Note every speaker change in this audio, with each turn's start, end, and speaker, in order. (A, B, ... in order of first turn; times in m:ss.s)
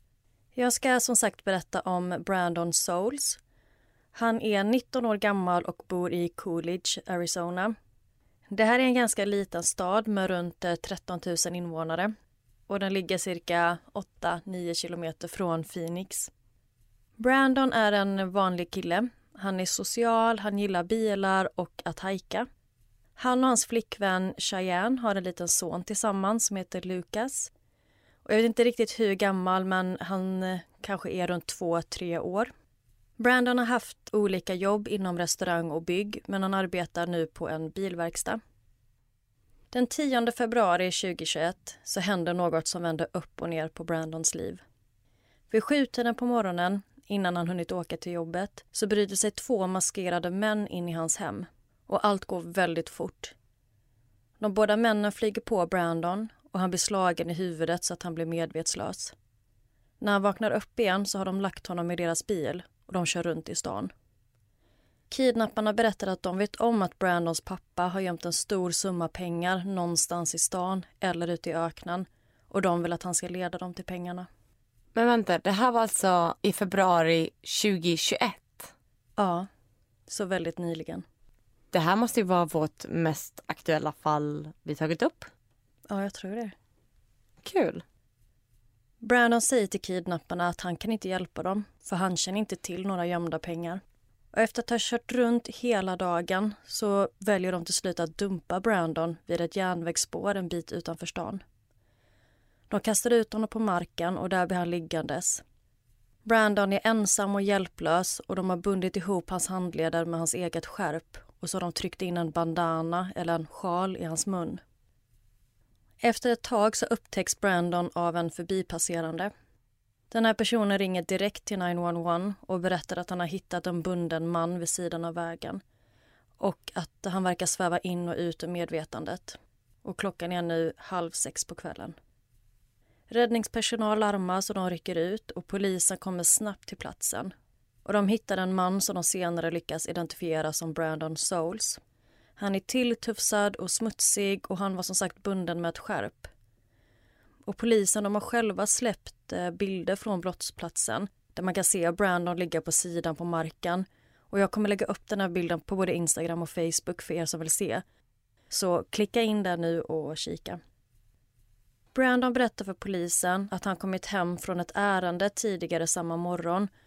0:00.6-0:03.4 A
0:04.1-0:07.8 A
0:08.5-0:12.1 A
0:12.7-0:16.3 A
0:17.2-0:22.5 A
0:23.2-0:27.5 A
0:28.2-0:32.5 A
0:33.2-0:38.4 A
0:39.7-0:44.6 A
0:45.5-0:53.4 A
0:54.4-0:59.2 A
1:00.0-1:03.9 A
1:05.1-1:14.3 A
1:15.0-1:18.7 B
1:19.2-1:19.5 A
1:20.1-1:21.0 A
1:21.7-1:25.3 B
1:25.9-1:26.5 A
1:27.4-1:27.8 B
1:29.0-1:33.8 A
1:34.3-1:41.4 A
1:42.7-1:45.4 A
1:46.2-1:54.6 A
1:56.0-1:59.3 A
2:00.1-2:05.6 A
2:06.4-2:12.0 A
2:13.1-2:17.3 A
2:17.9-2:21.8 A
2:22.4-2:26.3 A
2:27.5-2:37.8 A
2:38.5-2:40.6 A
2:41.9-2:46.7 A